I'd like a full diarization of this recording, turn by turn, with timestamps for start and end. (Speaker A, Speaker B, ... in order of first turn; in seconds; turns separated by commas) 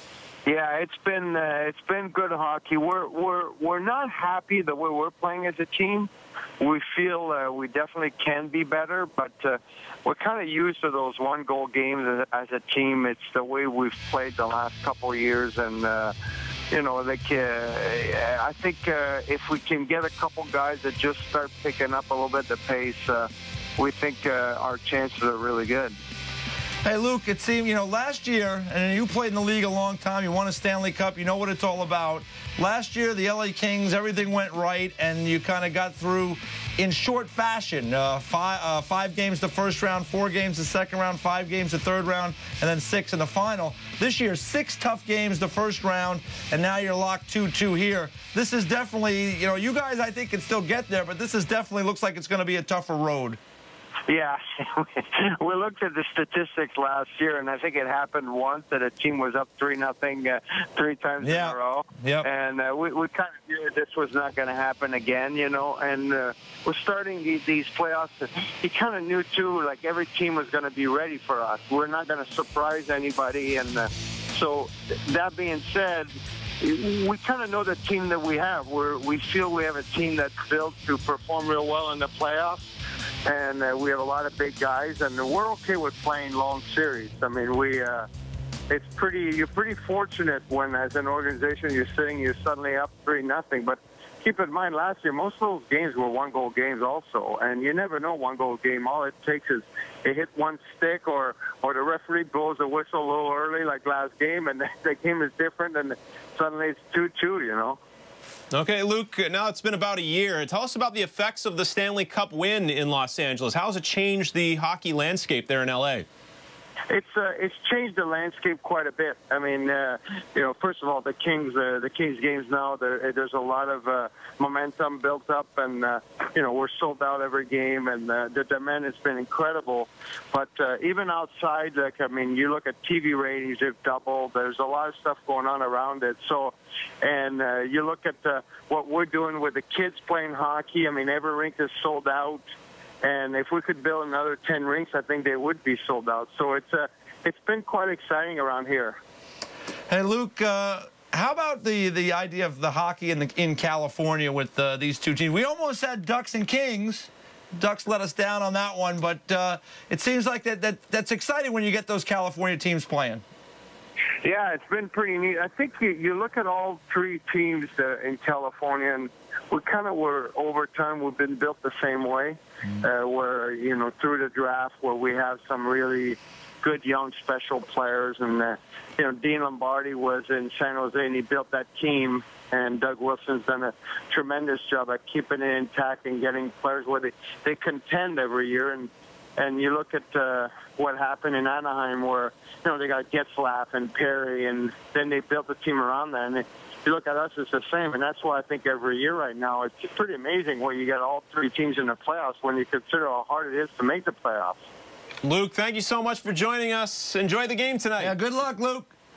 Speaker A: 0.4-16.1, Speaker A: 16.7-25.9, Speaker B: 26.8-53.4, Speaker A: 54.1-76.1, Speaker B: 61.2-62.3, Speaker A: 76.6-82.7, Speaker A: 83.2-88.1, Speaker A: 88.7-107.8, Speaker C: 108.5-116.0, Speaker A: 116.9-142.4, Speaker A: 143.0-149.0, Speaker B: 149.9-163.2, Speaker A: 164.2-204.6, Speaker C: 205.2-208.1, Speaker B: 208.0-208.9